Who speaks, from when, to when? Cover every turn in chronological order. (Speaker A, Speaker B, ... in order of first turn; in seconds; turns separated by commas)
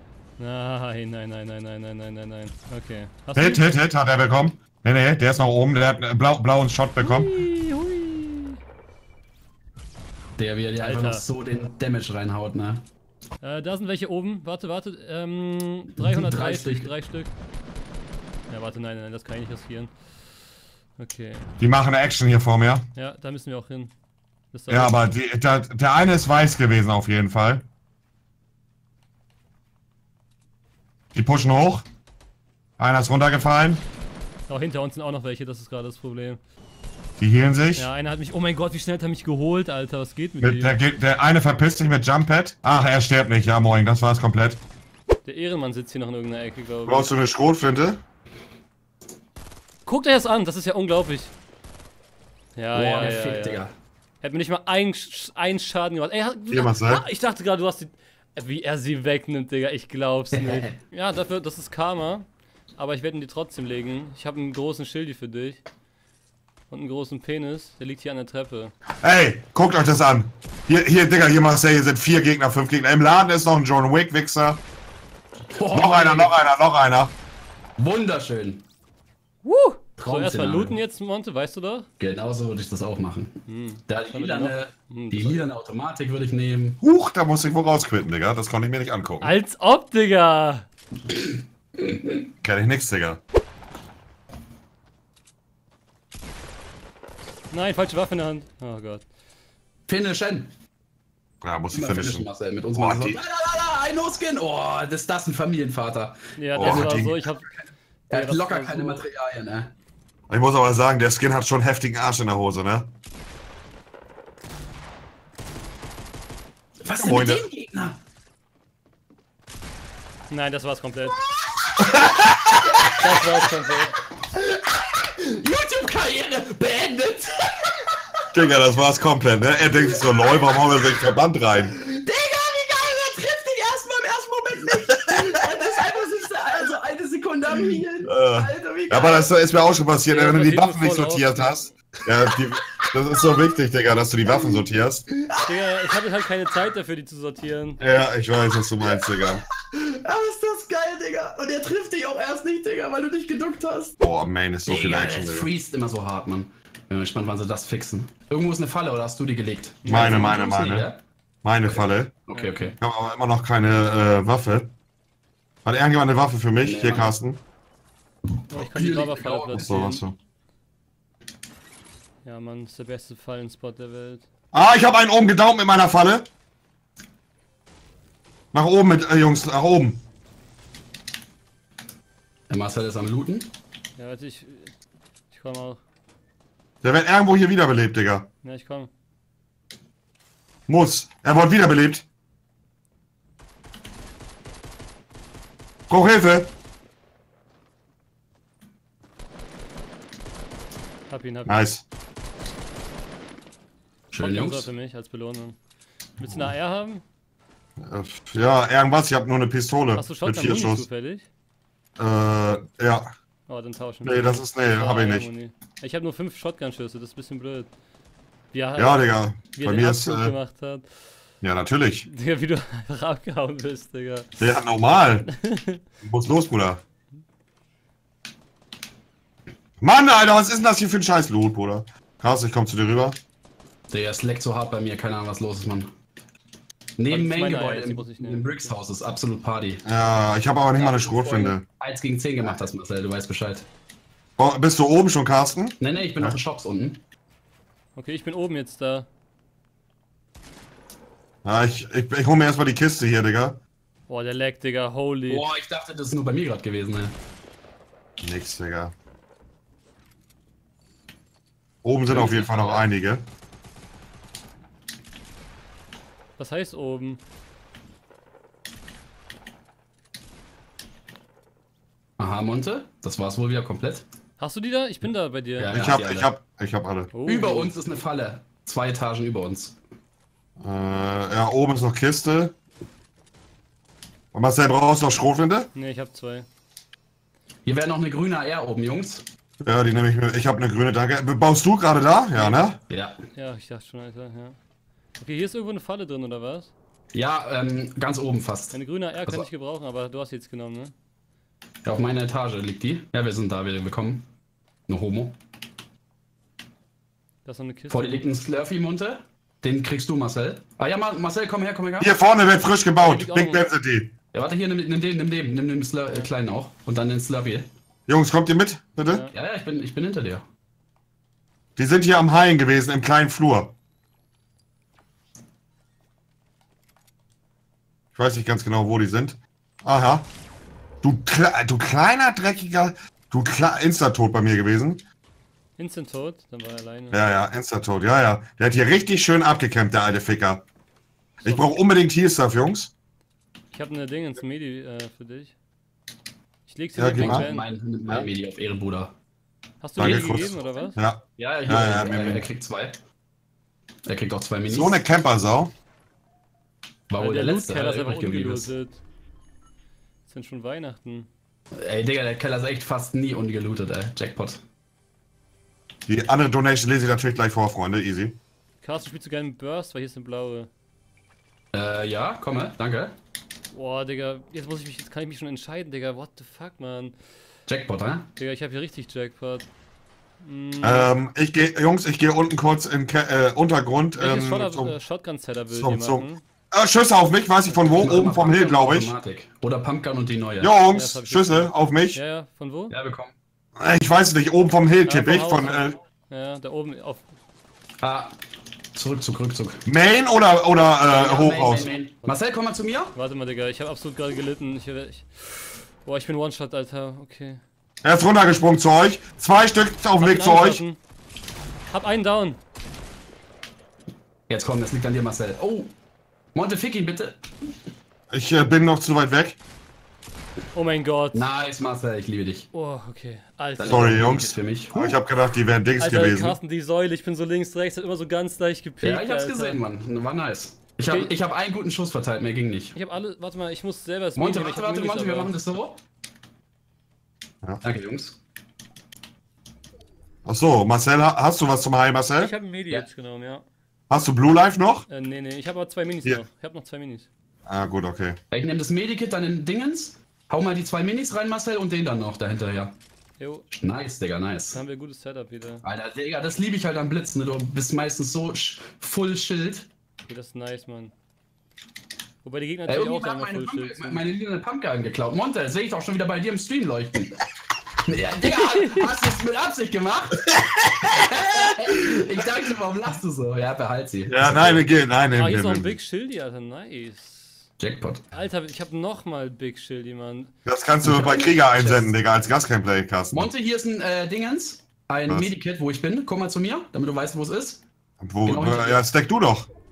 Speaker A: 0.4-3.7, Speaker B: 3.3-7.3, Speaker A: 7.0-8.6, Speaker C: 10.4-12.8, Speaker A: 10.8-11.2, Speaker A: 13.4-17.3, Speaker C: 15.9-16.9, Speaker A: 18.5-19.9, Speaker A: 21.0-21.5, Speaker B: 21.6-22.9, Speaker A: 22.9-23.9, Speaker A: 24.5-25.1, Speaker B: 24.7-27.6, Speaker B: 31.1-31.8, Speaker B: 32.8-33.8, Speaker A: 34.5-36.4, Speaker B: 37.2-37.9, Speaker A: 37.8-40.8, Speaker B: 40.4-44.6, Speaker A: 45.2-47.1, Speaker B: 46.9-48.0, Speaker A: 49.9-51.3, Speaker A: 52.5-53.6, Speaker C: 52.7-53.7, Speaker A: 54.2-65.6, Speaker B: 56.5-57.0, Speaker C: 60.3-60.8, Speaker A: 66.7-68.7, Speaker B: 69.0-74.6, Speaker C: 75.5-76.4, Speaker B: 75.7-77.1, Speaker C: 77.8-78.6, Speaker A: 79.4-81.9, Speaker C: 80.0-80.8, Speaker C: 82.0-86.8, Speaker A: 83.5-85.5, Speaker B: 86.8-89.3, Speaker A: 89.2-90.7, Speaker C: 91.1-92.2, Speaker B: 92.4-93.2, Speaker A: 97.5-99.0, Speaker C: 99.9-100.5, Speaker B: 101.4-103.2, Speaker C: 101.7-109.7, Speaker A: 106.4-107.5, Speaker B: 106.5-107.2, Speaker A: 108.1-109.0, Speaker B: 110.3-112.9, Speaker C: 116.8-118.0, Speaker B: 116.9-117.4, Speaker A: 120.3-121.2, Speaker C: 121.4-121.8, Speaker B: 121.8-122.8, Speaker C: 122.7-123.3, Speaker A: 123.0-123.9, Speaker C: 124.3-127.7, Speaker B: 128.3-131.7, Speaker C: 129.9-130.6, Speaker C: 131.7-139.3, Speaker B: 138.0-145.1, Speaker A: 140.1-141.7, Speaker C: 144.3-144.6, Speaker C: 145.2-145.8, Speaker A: 145.4-147.8, Speaker B: 147.8-149.4, Speaker C: 148.8-153.9, Speaker B: 154.0-155.5, Speaker C: 154.7-161.0, Speaker A: 159.8-160.4, Speaker B: 159.8-160.9, Speaker B: 161.4-162.1, Speaker C: 161.7-162.8, Speaker A: 162.3-162.7, Speaker B: 162.8-164.7, Speaker B: 165.6-167.4, Speaker C: 166.6-167.1, Speaker A: 168.5-170.0, Speaker C: 168.5-169.9, Speaker B: 169.5-170.1, Speaker A: 172.2-174.2, Speaker B: 174.5-176.3, Speaker B: 178.5-180.0, Speaker C: 182.5-183.5, Speaker A: 184.0-184.7, Speaker A: 185.3-185.8, Speaker B: 186.8-188.3, Speaker A: 188.4-188.9, Speaker B: 190.7-192.0, Speaker B: 195.9-196.5, Speaker A: 201.1-201.6, Speaker B: 201.4-201.8, Speaker C: 204.1-204.7, Speaker A: 204.2-205.6, Speaker A: 206.2-207.0, Speaker B: 207.8-210.8, Speaker A: 209.9-211.3, Speaker B: 212.0-213.1, Speaker A: 213.5-217.7, Speaker B: 214.0-215.3, Speaker A: 218.5-220.9, Speaker B: 218.8-220.3, Speaker B: 221.4-222.1, Speaker A: 222.0-224.5, Speaker B: 224.4-225.3, Speaker A: 225.2-225.8, Speaker B: 226.0-226.8, Speaker B: 229.8-233.2, Speaker C: 233.9-235.9, Speaker C: 237.0-239.8, Speaker A: 237.1-238.7, Speaker B: 239.8-241.6, Speaker C: 240.7-243.6, Speaker B: 244.4-246.4, Speaker C: 245.8-247.0, Speaker A: 247.9-249.1, Speaker B: 251.4-253.6, Speaker A: 254.1-255.5, Speaker C: 255.3-257.1, Speaker B: 258.2-258.9, Speaker B: 261.8-263.2, Speaker C: 262.1-262.9, Speaker A: 266.4-267.2, Speaker C: 272.2-274.0, Speaker A: 274.4-275.8, Speaker C: 275.6-276.3, Speaker B: 275.7-277.1, Speaker A: 277.1-277.7, Speaker C: 277.2-279.8, Speaker B: 280.6-282.5, Speaker B: 284.3-285.7, Speaker A: 285.7-286.5, Speaker C: 287.6-289.2, Speaker B: 289.6-292.8, Speaker A: 292.3-292.7, Speaker C: 292.9-293.1, Speaker A: 293.3-294.6, Speaker A: 295.2-296.7, Speaker C: 297.1-299.4, Speaker A: 298.7-300.9, Speaker C: 301.8-304.3, Speaker C: 304.9-305.4, Speaker A: 307.4-308.2, Speaker C: 307.9-312.1, Speaker B: 312.0-314.1, Speaker A: 313.0-313.6, Speaker C: 314.3-317.7, Speaker B: 318.1-319.2, Speaker A: 319.1-319.3, Speaker C: 319.3-320.4, Speaker B: 321.8-323.7, Speaker B: 328.1-330.3, Speaker B: 331.0-335.0, Speaker A: 335.8-337.2, Speaker B: 337.1-340.6, Speaker A: 341.4-341.7, Speaker B: 341.4-342.9, Speaker A: 343.7-345.5, Speaker A: 346.7-348.2, Speaker B: 346.9-347.4, Speaker C: 347.2-349.1, Speaker A: 349.8-351.0, Speaker B: 350.0-352.5, Speaker C: 350.0-350.4, Speaker C: 351.4-353.0, Speaker C: 354.1-355.1, Speaker B: 354.7-355.7, Speaker C: 357.1-358.7, Speaker A: 357.2-359.0, Speaker A: 360.3-361.3, Speaker C: 361.8-364.6, Speaker B: 366.1-368.4, Speaker A: 368.8-370.7, Speaker C: 371.7-373.1, Speaker A: 373.7-377.1, Speaker C: 377.7-378.3, Speaker A: 378.4-379.7, Speaker A: 380.4-381.1, Speaker B: 380.8-384.9, Speaker A: 384.2-386.4, Speaker B: 385.7-389.1, Speaker A: 387.7-388.1, Speaker C: 387.9-390.7, Speaker B: 390.6-392.2, Speaker A: 390.9-392.9, Speaker C: 392.9-393.3, Speaker B: 393.8-395.9, Speaker A: 395.1-397.2, Speaker C: 398.0-398.3, Speaker C: 398.9-399.8, Speaker B: 399.9-401.9, Speaker C: 401.0-403.1, Speaker A: 403.1-407.6, Speaker B: 408.0-410.8, Speaker A: 410.2-411.0, Speaker A: 411.9-412.6, Speaker C: 414.5-415.9, Speaker C: 416.5-417.4, Speaker B: 418.3-419.6, Speaker A: 420.7-421.4, Speaker C: 421.3-422.7, Speaker A: 422.7-424.1, Speaker C: 423.8-425.2, Speaker B: 423.8-426.6, Speaker A: 426.0-429.8, Speaker C: 429.0-432.9, Speaker A: 431.1-431.3, Speaker A: 432.9-435.5, Speaker C: 434.4-436.0, Speaker C: 437.8-438.4, Speaker B: 440.4-442.5, Speaker A: 442.4-443.6, Speaker B: 444.1-445.1, Speaker A: 445.1-447.3, Speaker B: 447.7-448.4, Speaker C: 448.5-452.9, Speaker A: 453.4-453.7, Speaker C: 453.7-454.8, Speaker A: 454.7-455.8, Speaker C: 455.8-459.9, Speaker A: 460.3-461.1, Speaker A: 462.4-464.2, Speaker C: 462.9-467.4, Speaker C: 468.1-470.5, Speaker A: 468.4-469.1, Speaker C: 471.0-475.0, Speaker B: 474.3-475.9, Speaker A: 475.3-477.7, Speaker C: 477.8-478.2, Speaker A: 478.3-480.5, Speaker B: 480.6-483.5, Speaker C: 481.0-482.1, Speaker C: 483.3-487.8, Speaker B: 488.2-489.7, Speaker C: 488.4-489.0